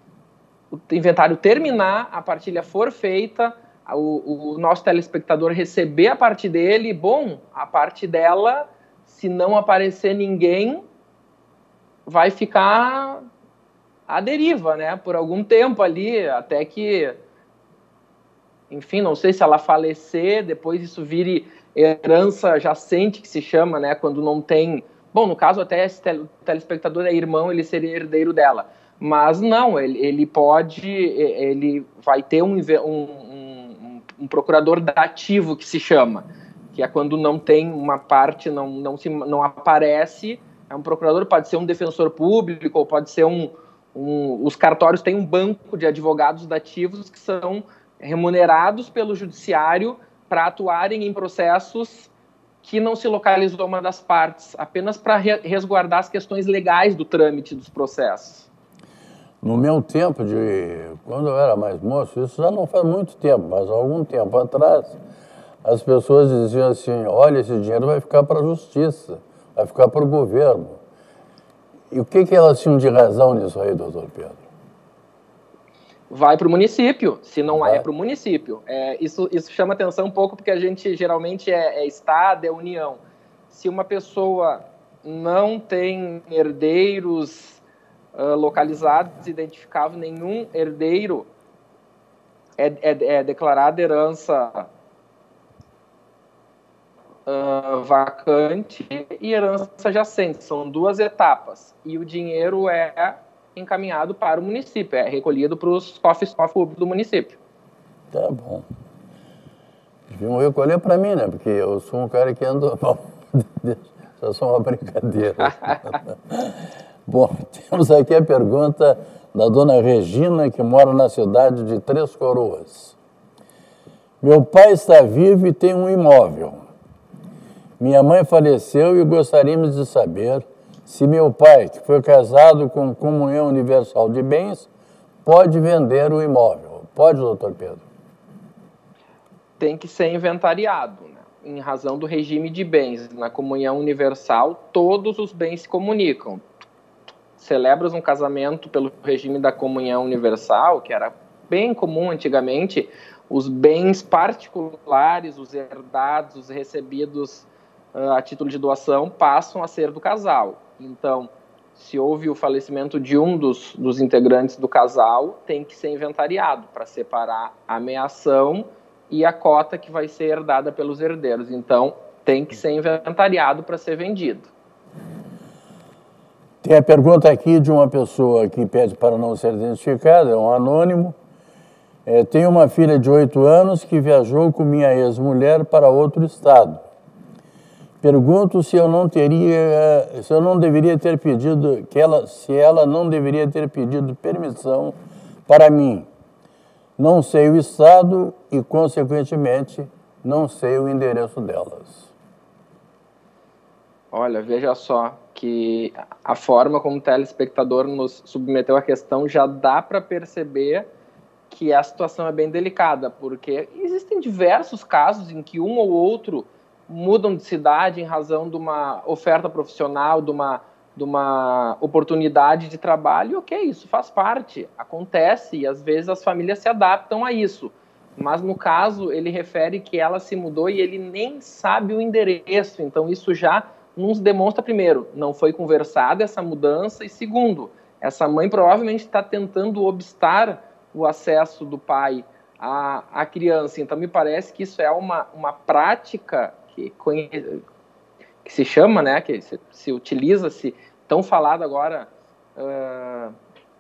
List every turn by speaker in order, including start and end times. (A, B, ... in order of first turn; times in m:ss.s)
0:00.9-0:10.8 A
0:12.1-0:13.3 A
0:14.1-0:17.2 A
0:18.7-0:52.1 A
0:52.6-0:58.5 A
0:59.4-1:05.0 B
1:05.6-1:10.8 B
1:11.9-1:14.4 B
1:16.1-1:27.6 A
1:17.6-1:17.8 B
1:28.2-1:31.3 A
1:32.6-1:34.7 A
1:37.3-1:47.4 A
1:48.1-1:48.7 B
1:50.1-2:03.0 B
1:55.4-1:55.8 A
2:04.2-2:06.7 B
2:07.8-2:14.7 B
2:15.2-2:17.9 B
2:19.6-2:26.4 A
2:27.4-2:54.5 A
2:56.6-3:01.2 B
3:02.1-3:06.9 B
3:08.0-3:15.0 B
3:15.5-3:16.1 B
3:17.0-3:22.1 B
3:24.1-3:30.9 A
3:31.5-4:07.6 A
4:08.4-4:13.4 A